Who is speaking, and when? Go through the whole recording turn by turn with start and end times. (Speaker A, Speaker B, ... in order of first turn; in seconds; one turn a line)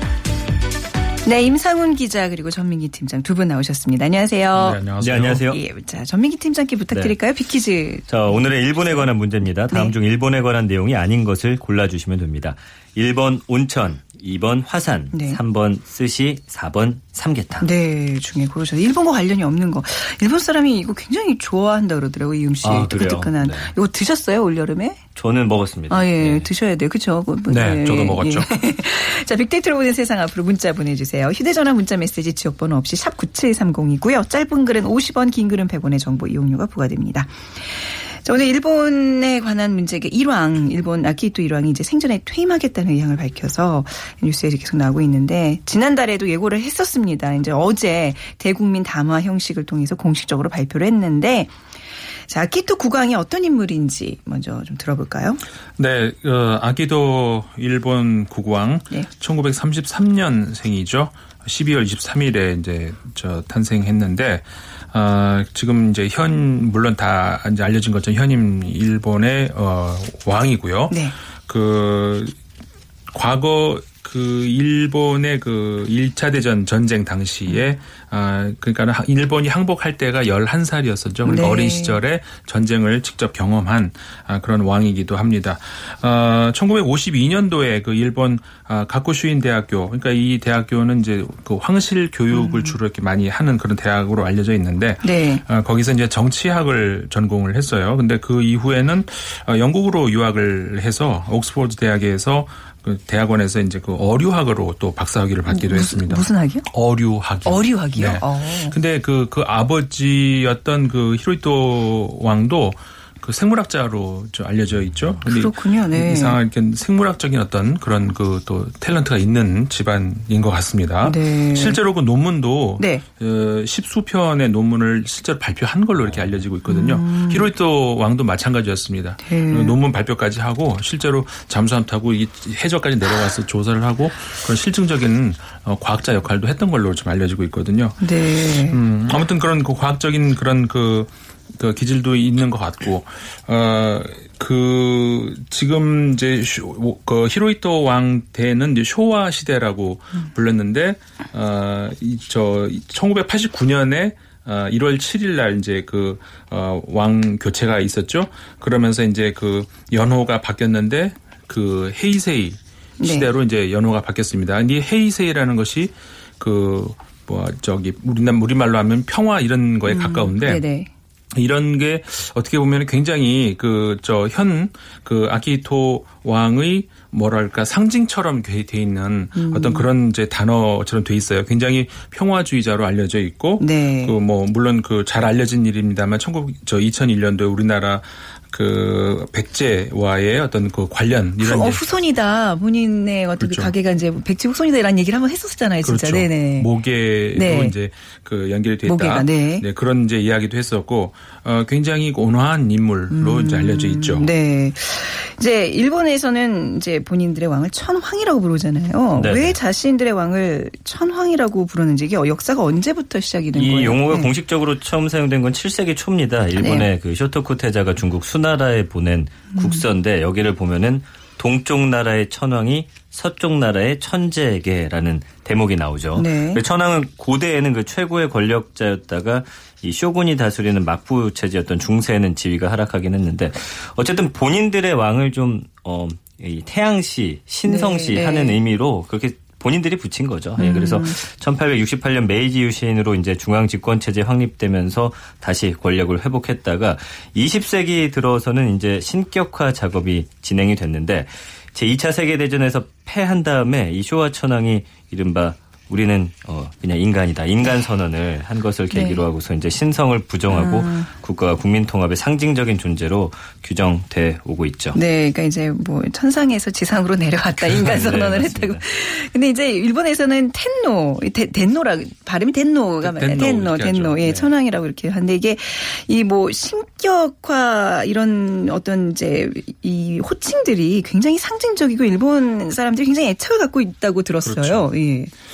Speaker A: 1.2-4.8
Speaker B: 4.5-5.5
Speaker C: 5.0-5.6
Speaker A: 5.4-9.1
Speaker C: 8.1-17.6
Speaker A: 15.1-15.4
Speaker A: 17.6-25.0
Speaker C: 22.6-23.7
Speaker C: 25.1-26.5
Speaker A: 25.9-51.5
Speaker B: 27.5-28.5
Speaker A: 52.3-55.4
Speaker B: 55.8-72.3
Speaker A: 70.9-71.1
Speaker B: 73.1-138.0
Speaker A: 81.2-82.0
Speaker A: 92.3-92.8
Speaker A: 95.0-95.4
Speaker A: 105.5-106.7
Speaker A: 107.5-108.8
Speaker A: 115.2-116.4
Speaker A: 121.0-121.8
Speaker A: 122.8-123.0
Speaker A: 126.6-127.5
Speaker A: 129.2-129.8
Speaker A: 138.0-138.8
Speaker B: 138.7-170.6
Speaker A: 163.0-163.3
Speaker A: 169.9-170.9
Speaker B: 171.3-191.8
Speaker A: 179.3-179.9
Speaker A: 183.6-184.2
Speaker A: 191.4-196.7
Speaker B: 193.4-193.7
Speaker B: 195.8-204.3
Speaker A: 197.3-197.7
Speaker A: 198.8-199.7
Speaker A: 203.1-214.3
Speaker C: 209.2-209.6
Speaker C: 213.5-265.0
Speaker A: 216.6-216.9
Speaker A: 219.5-219.8
Speaker A: 226.1-226.6
Speaker A: 237.6-238.6
Speaker A: 240.6-241.2
Speaker A: 258.9-259.2
Speaker A: 260.5-261.1
Speaker A: 264.9-285.3
Speaker C: 267.6-268.8
Speaker B: 273.0-274.5
Speaker B: 284.4-284.9